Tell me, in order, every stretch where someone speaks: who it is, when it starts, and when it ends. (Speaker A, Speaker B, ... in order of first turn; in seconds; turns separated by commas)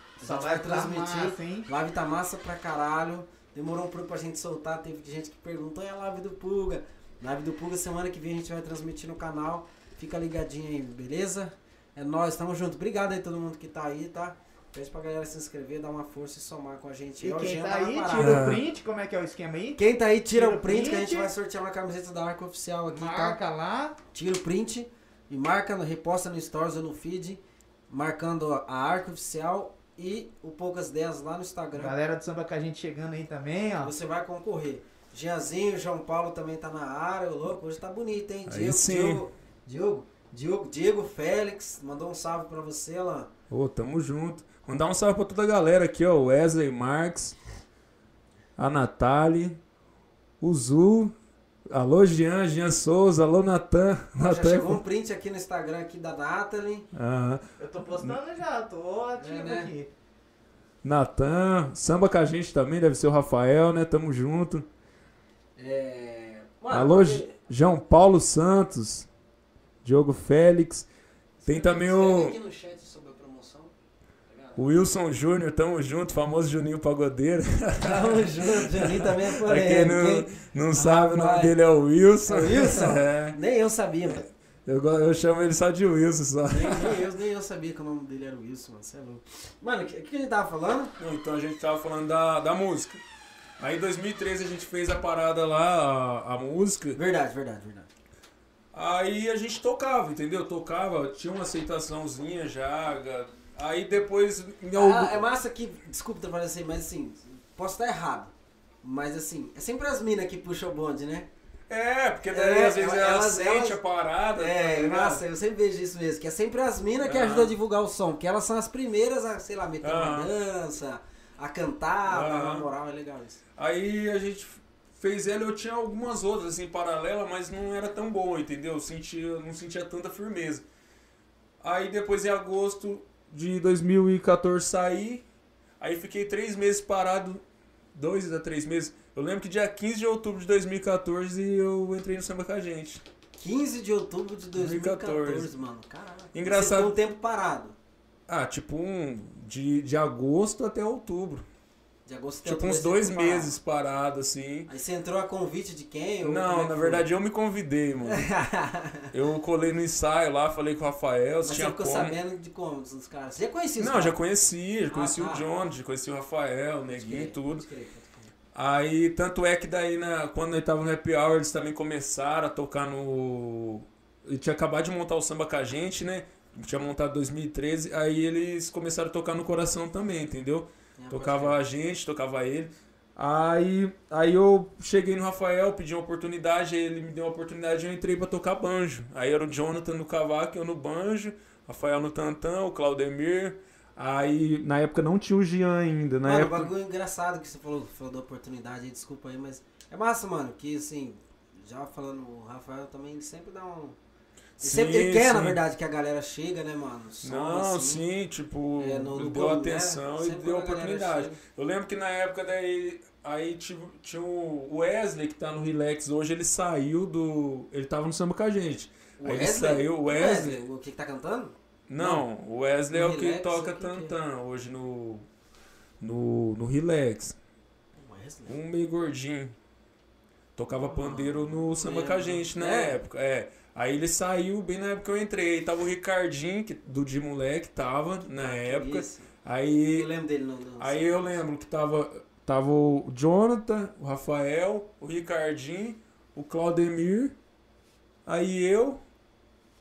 Speaker A: 0.2-1.7, Speaker B: 0.2-18.5, Speaker A: 17.2-21.3, Speaker C: 18.1-18.6, Speaker B: 19.8-23.4, Speaker A: 22.9-24.0, Speaker B: 24.1-31.9, Speaker A: 31.7-33.9, Speaker B: 33.8-43.3, Speaker C: 38.5-39.2, Speaker C: 43.5-47.4, Speaker C: 48.6-49.6, Speaker C: 50.4-51.1, Speaker C: 51.7-54.8, Speaker B: 54.1-56.9, Speaker C: 56.9-58.2, Speaker A: 57.6-59.9, Speaker B: 59.2-59.7, Speaker C: 60.8-64.7, Speaker B: 65.6-67.3, Speaker C: 66.7-69.1, Speaker C: 69.8-70.9, Speaker B: 71.4-73.7, Speaker C: 71.5-72.4, Speaker B: 74.3-74.6, Speaker C: 74.5-83.4, Speaker B: 77.8-81.5, Speaker B: 82.2-84.2, Speaker C: 84.7-87.0, Speaker B: 86.5-90.9, Speaker C: 91.0-93.0, Speaker C: 93.6-97.0, Speaker B: 96.9-97.9, Speaker C: 98.7-105.2, Speaker B: 104.7-108.3, Speaker B: 108.8-111.3, Speaker C: 111.7-115.2, Speaker B: 112.3-113.8, Speaker B: 114.4-123.4, Speaker C: 117.0-117.5, Speaker C: 119.8-120.3, Speaker C: 122.1-122.7, Speaker C: 123.6-130.6, Speaker C: 131.6-135.2, Speaker C: 135.8-137.4, Speaker C: 137.9-143.0, Speaker B: 143.4-147.8, Speaker C: 144.5-145.5, Speaker C: 146.3-146.9, Speaker C: 148.3-151.5, Speaker B: 152.1-153.5, Speaker C: 152.4-154.7, Speaker B: 154.7-157.1, Speaker C: 156.2-158.3, Speaker B: 158.1-159.1, Speaker C: 159.1-162.2, Speaker B: 161.4-164.2, Speaker C: 163.8-167.6, Speaker B: 164.9-165.4, Speaker B: 166.9-168.3, Speaker C: 168.5-196.7, Speaker B: 181.0-181.6, Speaker B: 196.2-204.0, Speaker C: 204.6-205.6, Speaker B: 204.6-208.0, Speaker C: 207.2-220.6, Speaker B: 208.8-211.4, Speaker B: 219.2-222.2, Speaker C: 221.9-225.2, Speaker B: 222.9-224.1, Speaker C: 226.0-227.3, Speaker B: 227.9-228.6, Speaker C: 228.5-229.5, Speaker C: 230.6-240.1, Speaker B: 230.8-233.0, Speaker B: 238.3-239.3, Speaker B: 239.9-241.4, Speaker C: 240.8-247.3, Speaker C: 248.2-249.0